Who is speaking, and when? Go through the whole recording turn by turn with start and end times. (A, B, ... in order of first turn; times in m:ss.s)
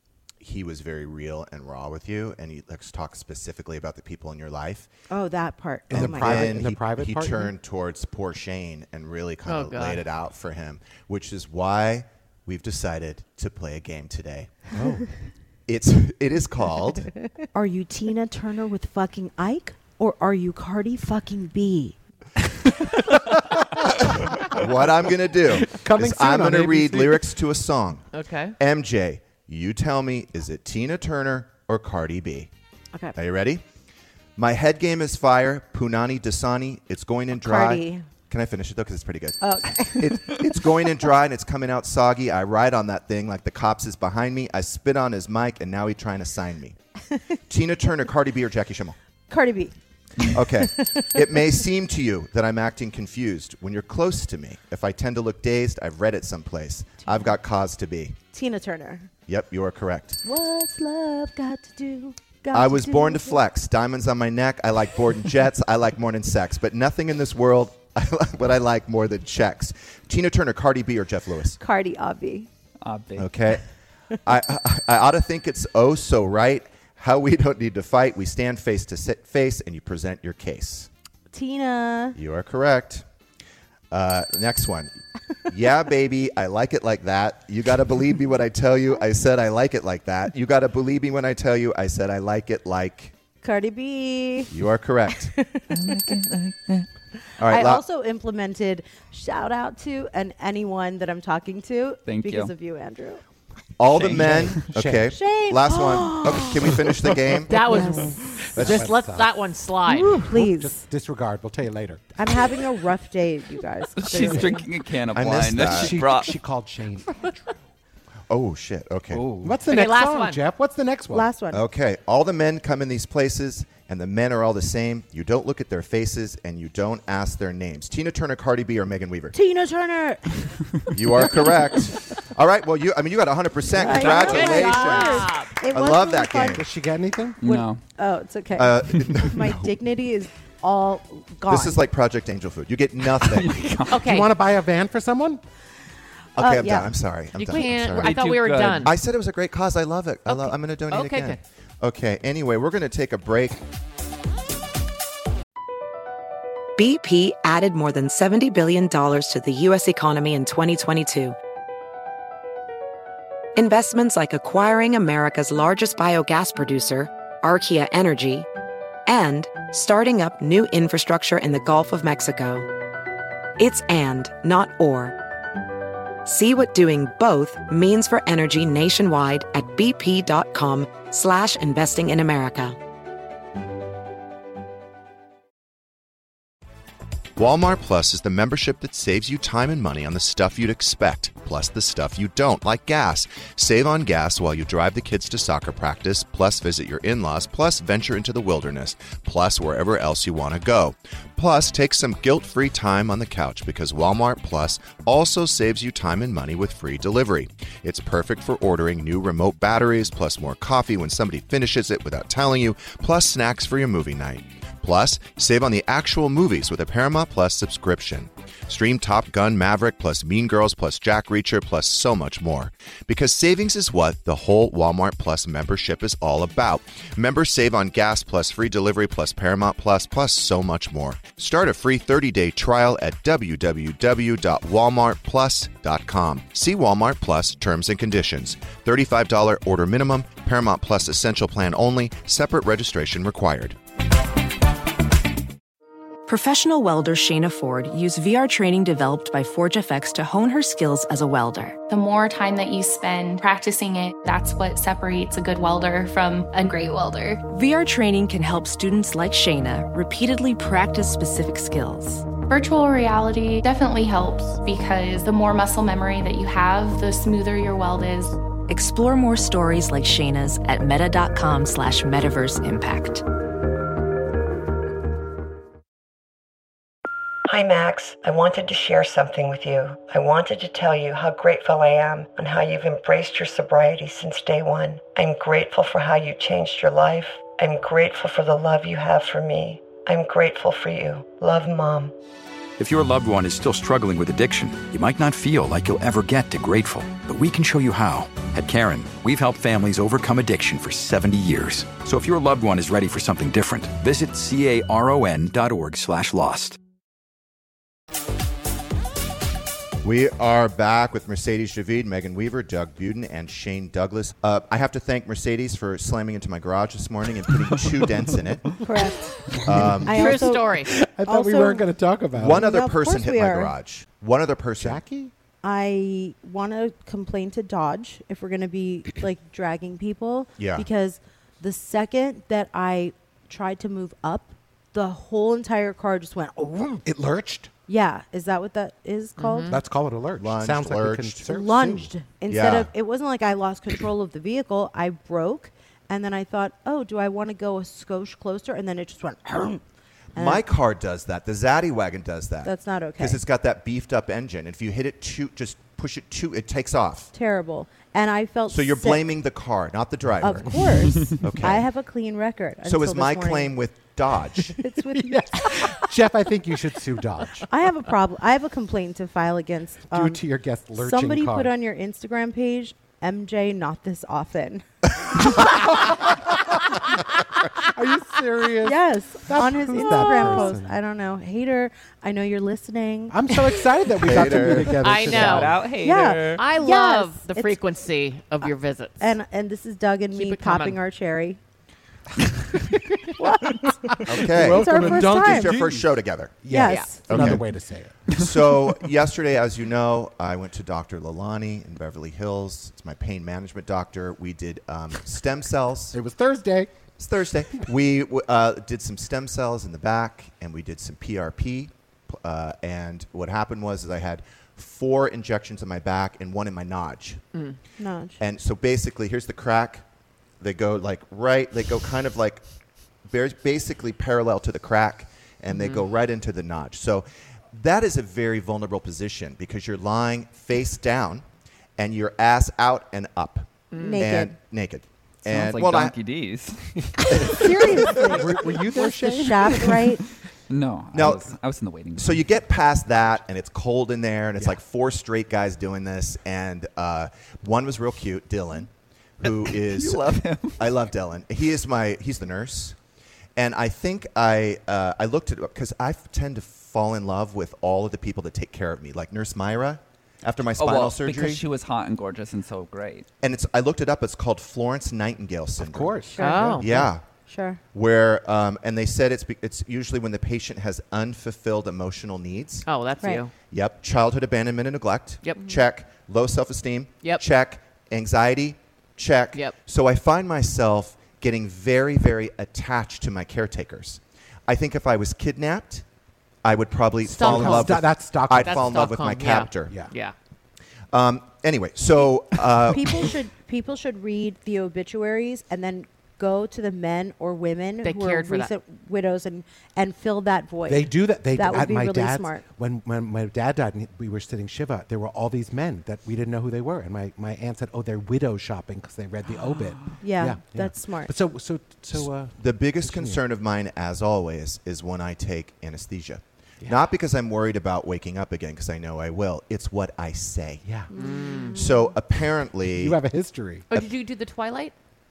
0:00.4-0:04.9 A
0:05.1-0:06.6 B
0:05.9-0:07.5 C
0:05.9-0:14.6 A
0:09.4-0:10.0 D
0:14.7-0:15.1 C
0:15.7-0:17.1 A
0:17.5-0:22.0 B
0:23.3-0:24.6 C
0:24.0-0:32.5 A
0:25.5-0:27.3 C
0:28.1-0:28.6 D
0:33.1-0:33.6 A
0:34.4-0:46.8 A
0:37.3-0:38.0 B
0:39.4-0:40.4 B
0:47.5-0:49.0 A
0:49.3-0:49.7 B
0:50.2-0:58.2 A
0:50.3-0:51.2 B
0:58.3-0:59.1 B
0:59.3-1:00.2 A
1:00.2-1:03.4 B
1:02.5-1:11.6 A
1:11.6-1:12.5 B
1:12.8-1:13.3 E
1:13.2-1:13.6 A
1:14.2-1:20.9 A
1:21.3-1:22.2 B
1:22.2-1:23.0 A
1:23.9-1:24.9 A
1:25.5-1:33.1 A
1:33.4-1:34.5 B
1:34.5-1:35.3 A
1:35.1-1:35.7 B
1:35.7-1:36.9 E
1:37.4-1:37.8 A
1:37.4-1:43.2 B
1:42.0-1:42.5 E
1:43.8-1:47.5 A
1:43.9-1:44.6 E
1:44.1-1:45.1 C
1:45.1-1:46.8 B
1:47.5-1:50.2 D
1:47.5-1:48.3 B
1:48.4-1:49.3 C
1:48.6-1:48.9 A
1:49.9-1:50.8 B
1:50.2-1:52.1 C
1:52.2-1:54.6 B
1:54.0-1:56.4 E
1:54.1-1:54.5 C
1:55.1-1:56.0 A
1:55.5-1:57.5 C
1:58.3-1:59.5 A
1:59.2-2:01.3 C
1:59.6-2:00.4 D
2:01.1-2:01.6 B
2:01.5-2:09.3 A
2:09.3-2:10.6 B
2:10.9-2:16.6 A
2:13.7-2:16.6 B
2:13.8-2:15.6 D
2:16.5-2:17.4 C
2:17.4-2:17.8 E
2:17.4-2:21.8 B
2:18.6-2:19.8 A
2:21.5-2:23.6 A
2:23.1-2:24.1 E
2:23.9-2:24.3 D
2:24.0-2:25.4 C
2:26.4-2:28.2 A
2:26.4-2:26.9 B
2:27.3-2:28.9 D
2:27.6-2:28.9 E
2:28.8-2:33.6 A
2:30.3-2:31.4 D
2:36.8-2:41.4 F
2:43.6-2:48.5 F
2:49.1-2:52.7 F
2:53.6-2:55.1 F
2:56.2-3:02.8 F
3:07.4-4:03.8 A
4:06.2-4:11.8 G
4:11.9-4:17.4 H
4:17.5-4:22.3 G
4:22.5-4:28.4 H
4:28.7-4:33.2 G
4:37.5-4:52.1 I
4:52.8-5:06.8 J
5:10.0-5:18.8 A
5:18.8-5:19.4 B
5:19.5-5:22.6 C
5:19.6-5:20.3 A
5:20.0-5:21.9 B
5:20.1-5:20.9 D
5:22.3-5:25.0 A
5:22.4-5:23.7 B
5:24.8-5:25.3 C
5:25.6-5:37.0 B
5:30.6-5:30.9 A
5:37.0-5:37.7 C
5:37.9-5:39.8 B
5:39.4-5:39.8 D
5:39.7-5:42.1 C
5:40.4-5:41.4 A
5:41.4-5:49.8 B
5:42.5-5:42.9 A
5:50.3-5:57.3 A
5:50.4-5:50.6 B
5:52.6-5:53.4 B
5:57.3-5:59.2 B
5:58.7-6:01.9 A
6:00.4-6:03.7 B
6:02.8-6:04.8 A
6:04.8-6:06.0 B
6:05.1-6:07.7 C
6:07.7-6:10.4 B
6:10.1-6:11.7 C
6:10.9-6:15.7 B
6:15.8-6:16.4 C
6:17.8-6:21.0 C
6:18.8-6:23.5 B
6:20.0-6:20.7 D
6:23.3-6:25.8 C
6:24.2-6:25.1 A
6:25.0-6:29.3 D
6:25.3-6:26.6 E
6:26.0-6:27.8 B
6:29.2-6:31.6 B
6:30.3-6:31.0 D
6:33.4-6:35.8 B
6:33.6-6:38.3 C
6:34.2-6:36.7 A
6:36.7-6:37.6 B
6:36.7-6:37.3 D
6:37.3-6:37.7 A
6:38.3-6:46.2 A
6:46.1-6:46.9 C
6:47.2-6:57.4 A
6:58.0-6:58.4 B
6:58.4-7:00.0 A
7:00.6-7:02.6 A
7:03.2-7:11.4 A
7:05.7-7:06.0 D
7:12.0-7:16.2 A
7:13.9-7:14.3 D
7:13.9-7:14.6 B
7:15.4-7:17.5 E
7:17.5-7:20.1 C
7:17.5-7:20.2 B
7:20.7-7:22.5 E
7:21.1-7:21.5 A
7:22.2-7:33.0 A
7:29.4-7:30.9 E
7:33.6-7:41.6 A
7:40.8-7:43.3 E
7:43.4-7:46.2 A
7:45.8-7:46.7 C
7:46.4-7:47.8 B
7:46.4-7:47.0 D
7:46.8-7:47.2 A
7:47.9-7:52.9 A
7:52.8-7:53.5 D
7:53.7-8:06.0 A
7:55.4-7:55.8 D
8:06.6-8:10.0 A
8:07.3-8:10.3 D
8:07.3-8:09.1 C
8:09.8-8:10.1 C
8:11.1-8:13.3 A
8:12.9-8:22.6 B
8:18.0-8:18.7 D
8:20.9-8:33.4 C
8:30.2-8:31.3 B
8:32.1-8:40.8 A
8:40.8-8:41.1 C
8:41.1-8:41.8 B
8:41.1-8:42.0 D
8:41.7-8:43.2 A
8:42.9-8:43.9 C
8:43.9-8:44.9 D